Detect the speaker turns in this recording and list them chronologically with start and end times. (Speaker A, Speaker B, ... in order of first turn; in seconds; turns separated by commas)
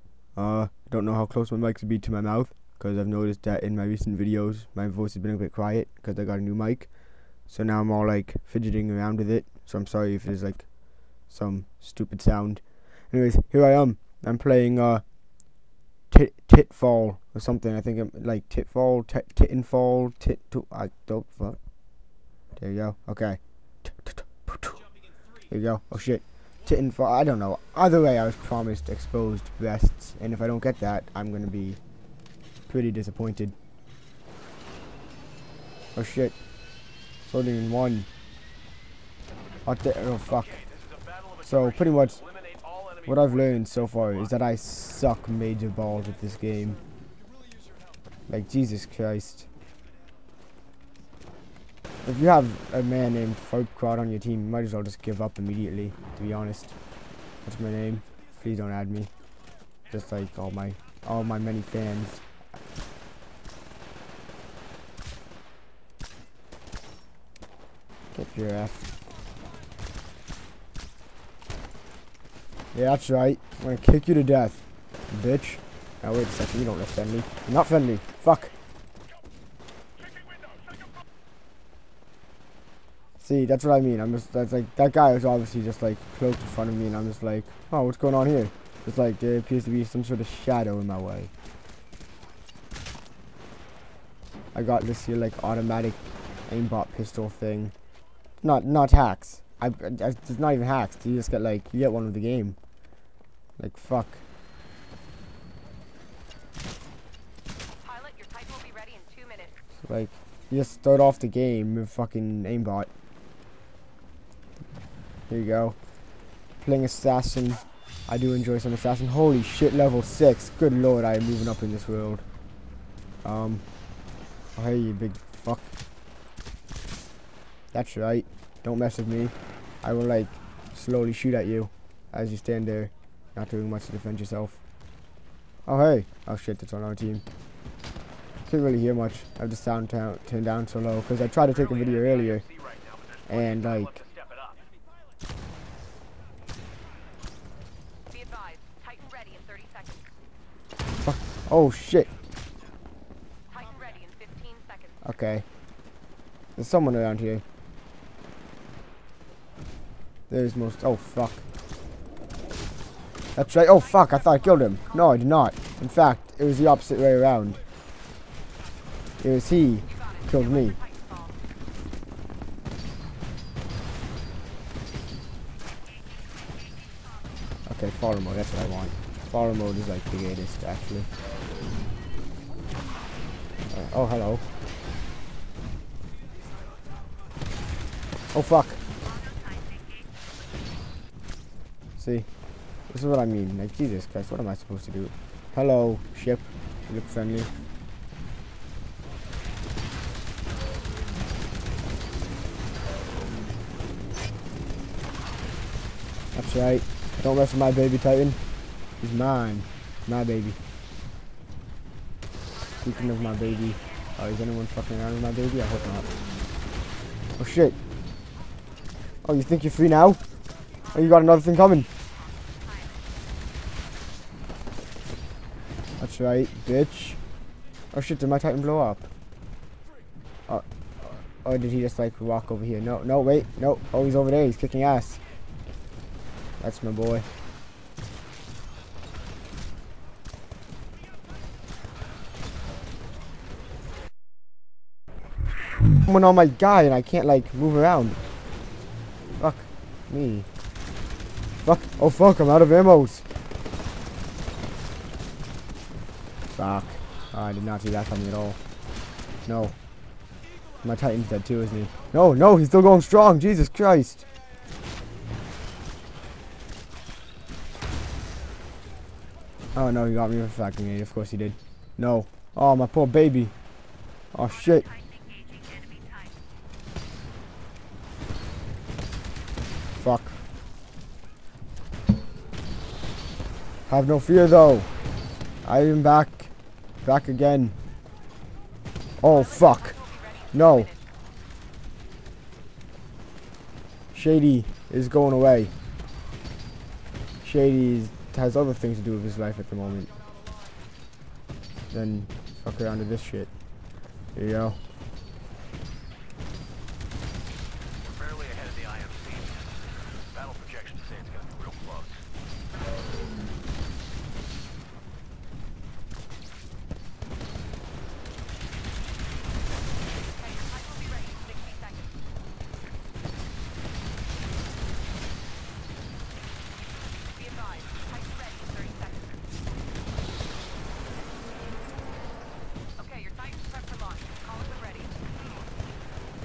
Speaker A: 0.3-6.9, Speaker A: 7.5-15.0, Speaker A: 16.1-21.6, Speaker A: 22.6-24.8, Speaker A: 25.5-31.8, Speaker A: 32.7-33.5, Speaker A: 35.9-36.4, Speaker A: 37.2-38.1, Speaker A: 39.6-40.6, Speaker B: 40.3-44.2, Speaker A: 41.4-42.2, Speaker A: 43.0-46.8, Speaker A: 48.3-49.5, Speaker A: 52.0-56.7, Speaker A: 57.4-59.1, Speaker A: 59.9-62.2, Speaker A: 68.1-68.9, Speaker A: 72.7-78.5, Speaker A: 83.2-91.3, Speaker A: 94.5-97.7, Speaker A: 98.4-102.6, Speaker A: 103.6-104.2, Speaker C: 107.8-109.5, Speaker A: 109.8-112.9, Speaker A: 115.3-115.8, Speaker A: 116.6-122.2, Speaker A: 123.2-123.6, Speaker A: 124.5-125.7, Speaker A: 127.7-134.6, Speaker A: 135.7-137.2, Speaker A: 138.5-142.4, Speaker B: 141.4-144.6, Speaker A: 143.3-144.0, Speaker C: 148.1-150.1, Speaker A: 151.0-152.1, Speaker C: 153.5-155.0, Speaker A: 155.0-155.4, Speaker A: 156.6-157.4, Speaker A: 160.3-161.4, Speaker A: 163.3-167.6, Speaker C: 163.5-165.2, Speaker A: 169.2-170.8, Speaker C: 169.8-171.4, Speaker A: 177.7-181.1, Speaker A: 183.7-184.4, Speaker A: 188.3-188.8, Speaker A: 192.0-192.3, Speaker A: 192.9-197.5, Speaker A: 206.3-208.4, Speaker A: 209.0-210.6, Speaker A: 212.8-216.1, Speaker A: 217.4-217.8, Speaker A: 219.2-220.2, Speaker A: 220.9-221.9, Speaker C: 220.9-222.9, Speaker A: 226.0-227.2, Speaker A: 227.9-229.1, Speaker A: 230.5-235.2, Speaker A: 236.6-237.3, Speaker A: 245.9-248.2, Speaker A: 249.4-250.5, Speaker A: 251.6-253.2, Speaker A: 256.5-258.6, Speaker A: 259.4-259.7, Speaker A: 260.8-264.2, Speaker A: 269.7-273.5, Speaker A: 274.3-274.9, Speaker C: 275.6-275.8, Speaker A: 280.0-280.4, Speaker A: 283.9-284.9, Speaker A: 285.6-286.5, Speaker A: 287.0-287.8, Speaker A: 289.2-290.0, Speaker C: 289.2-291.0, Speaker A: 290.5-290.9, Speaker A: 294.1-295.7, Speaker A: 297.4-300.1, Speaker A: 301.9-303.5, Speaker A: 304.3-304.8, Speaker B: 308.0-309.7, Speaker B: 310.3-312.2, Speaker C: 320.3-322.1, Speaker C: 327.3-329.4, Speaker C: 333.0-335.1